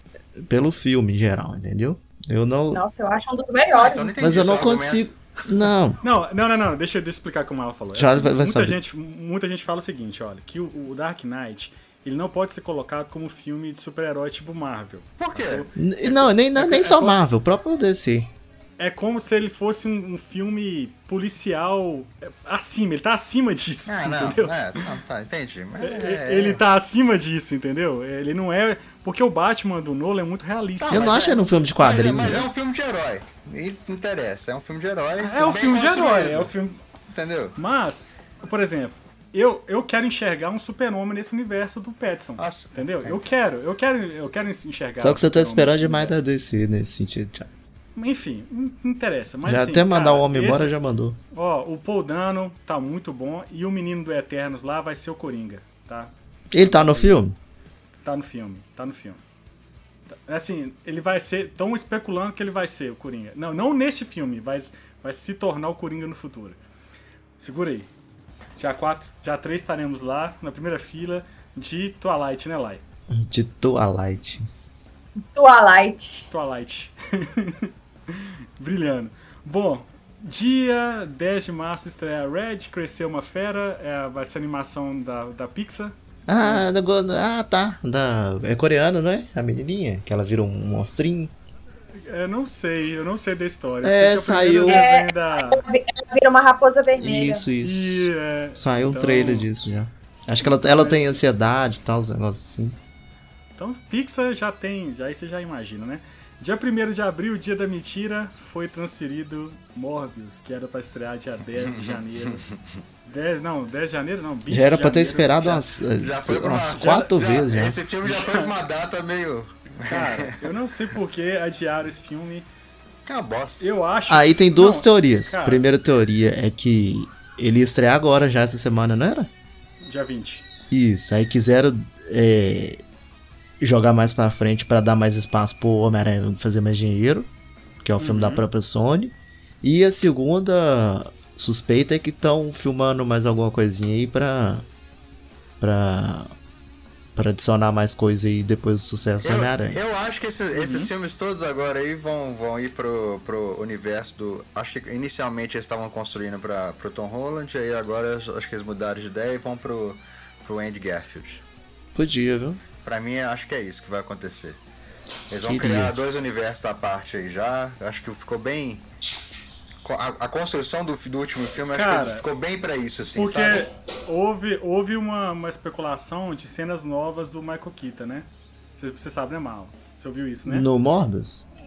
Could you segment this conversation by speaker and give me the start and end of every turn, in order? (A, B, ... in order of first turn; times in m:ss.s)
0:00.4-0:02.8 A
0:02.7-0:04.3 B
0:03.7-0:05.4 C
0:04.2-0:06.0 A
0:06.0-0:17.2 D
0:07.9-0:08.8 A
0:15.2-0:15.7 C
0:15.8-0:18.3 A
0:18.8-0:24.9 D
0:23.9-0:26.6 C
0:25.8-0:31.4 D
0:30.8-0:36.5 C
0:30.9-0:32.5 A
0:35.2-0:36.8 D
0:37.1-0:37.6 C
0:37.6-0:46.2 D
0:42.4-0:43.2 C
0:45.0-0:47.5 A
0:48.0-0:50.7 D
0:49.4-0:51.2 A
0:51.3-0:57.2 D
0:56.5-0:57.4 A
0:58.0-0:59.2 D
1:00.1-1:06.6 D
1:07.4-1:07.9 D
1:08.6-1:12.8 D
1:13.1-1:14.5 A
1:15.3-1:16.3 B
1:16.3-1:26.7 D
1:26.3-1:31.3 A
1:32.1-1:35.6 D
1:33.8-1:34.8 A
1:34.7-1:37.4 B
1:36.9-1:42.8 A
1:37.6-1:39.5 D
1:40.4-1:41.2 D
1:43.6-1:52.4 D
1:51.6-1:52.4 C
1:53.0-1:55.7 D
1:54.5-1:57.8 A
1:56.0-2:00.4 C
1:56.7-1:57.2 D
1:58.0-1:58.5 D
1:59.8-2:02.5 D
2:03.1-2:03.7 C
2:03.6-2:05.7 D
2:04.1-2:09.3 A
2:09.8-2:10.5 D
2:10.7-2:12.8 A
2:13.6-2:17.3 A
2:17.8-2:24.6 A
2:18.0-2:18.4 D
2:25.6-2:26.3 A
2:27.2-2:29.8 A
2:29.2-2:41.4 C
2:30.5-2:30.9 D
2:42.0-2:42.6 A
2:42.8-2:44.6 C
2:45.3-2:48.8 C
2:45.4-2:46.0 A
2:49.8-2:53.7 C
2:51.7-2:52.3 D
2:53.2-3:00.7 D
3:00.5-3:01.4 A